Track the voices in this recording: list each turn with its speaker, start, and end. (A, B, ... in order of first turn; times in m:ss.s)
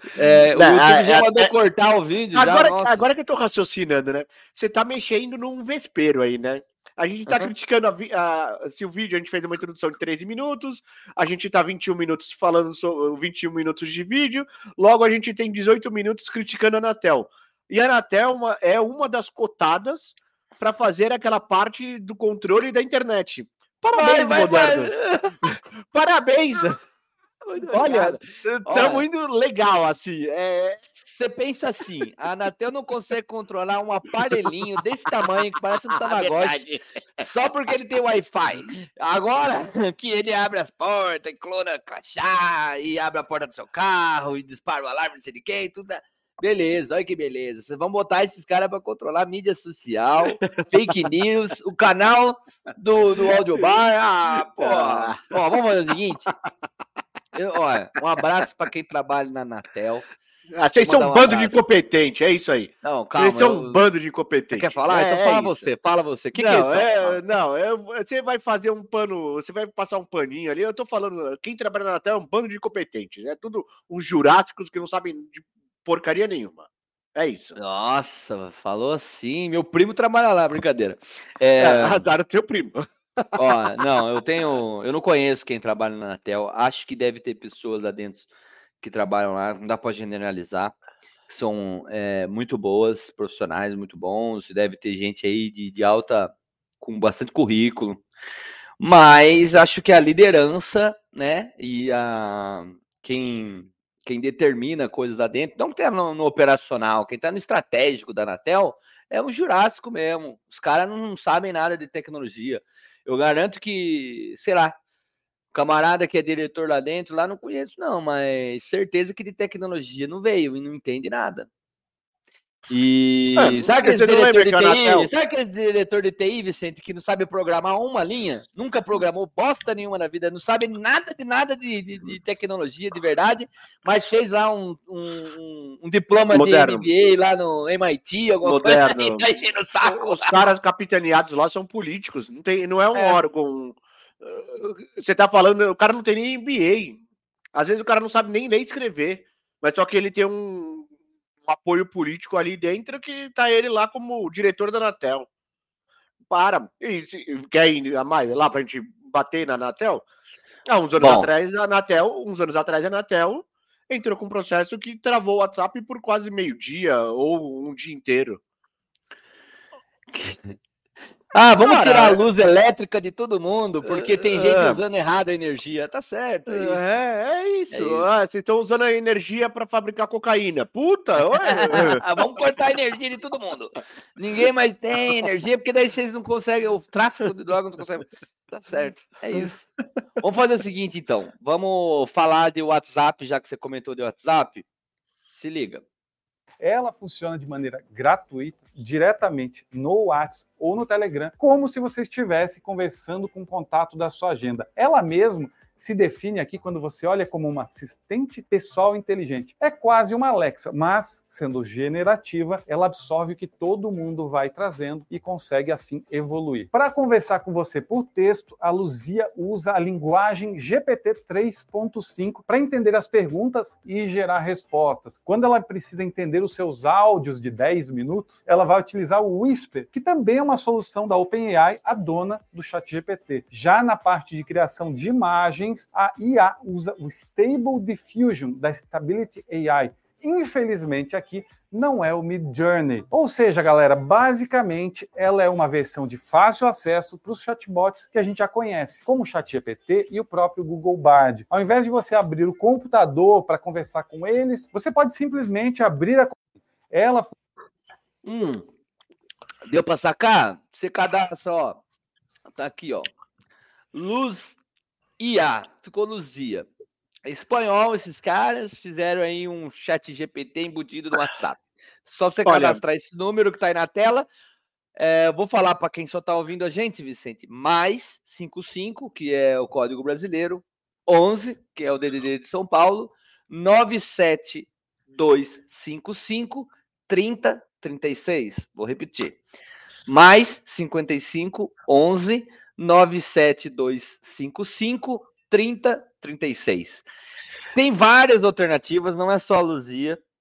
0:00.1-0:03.0 A
0:00.5-0:01.5 B
0:02.3-0:26.8 B
0:24.0-0:25.4 A
0:27.4-0:29.0 A
0:27.7-0:30.8 B
0:31.0-0:36.6 A
0:35.9-0:37.2 B
0:37.2-0:56.3 A
0:54.6-0:55.3 B
0:57.3-1:00.0 A
1:00.5-1:05.7 B
1:00.8-1:01.5 A
1:02.8-1:03.8 A
1:04.5-1:07.2 A
1:06.3-1:17.6 B
1:17.6-1:22.0 A
1:21.6-1:23.6 B
1:23.4-1:28.3 A
1:28.8-1:30.7 A
1:31.3-1:38.0 A
1:38.8-1:54.7 A
1:55.5-2:01.5 A
2:02.7-2:20.4 A
2:03.4-2:05.1 B
2:16.3-2:16.9 B
2:18.4-2:27.0 B
2:27.5-2:30.9 B
2:31.4-2:35.3 B
2:36.3-2:40.0 B
2:40.7-2:48.4 B
2:41.0-2:41.3 A
2:50.1-2:50.5 A
2:51.3-2:57.0 A
2:51.6-2:52.2 B
2:53.8-2:54.8 B
2:56.5-3:02.0 B
2:57.7-2:58.1 A
3:01.4-3:14.6 A
3:15.3-3:15.8 A
3:16.6-4:16.4 C
4:16.9-4:17.3 C
4:18.2-4:18.6 A
4:19.6-4:21.8 A
4:22.6-4:23.1 A
4:23.9-4:24.6 A
4:25.2-4:26.7 A
4:27.2-4:34.3 A
4:32.4-4:32.8 B
4:35.0-4:49.4 A
4:50.1-4:57.0 A
4:57.7-5:00.2 A